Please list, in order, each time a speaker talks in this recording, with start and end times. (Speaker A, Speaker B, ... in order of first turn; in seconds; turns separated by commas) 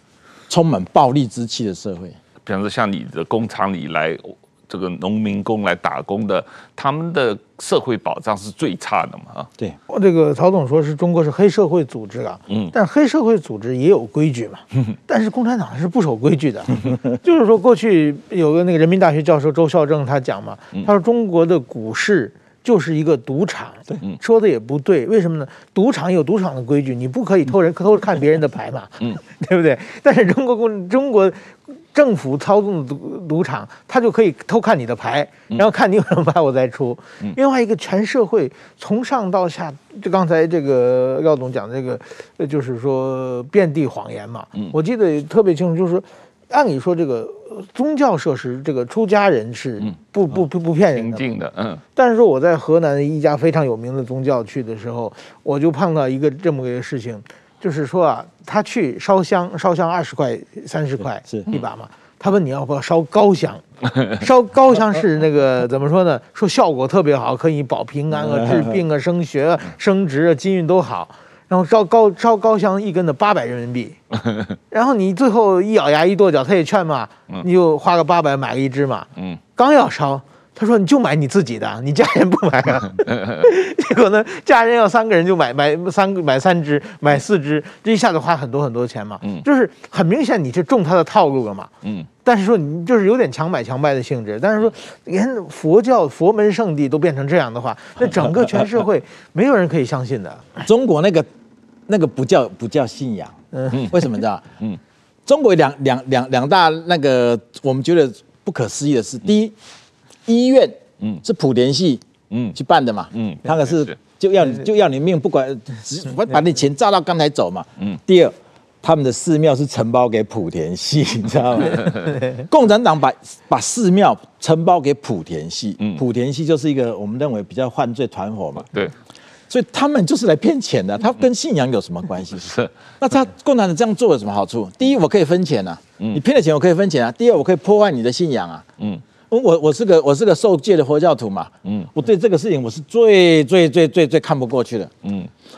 Speaker A: 0.5-2.2, Speaker B: 2.5-9.5, Speaker C: 9.9-51.2, Speaker B: 12.5-12.8, Speaker B: 50.9-51.8, Speaker C: 52.0-74.0, Speaker A: 68.1-68.8, Speaker C: 74.7-91.7, Speaker B: 91.8-92.1, Speaker C: 92.2-100.6, Speaker A: 100.6-101.3, Speaker A: 101.9-104.5, Speaker C: 103.5-103.8, Speaker A: 105.3-109.5, Speaker A: 110.3-128.7, Speaker B: 113.2-113.9, Speaker A: 129.5-138.7, Speaker A: 139.3-144.9, Speaker B: 141.7-141.9, Speaker B: 145.0-145.3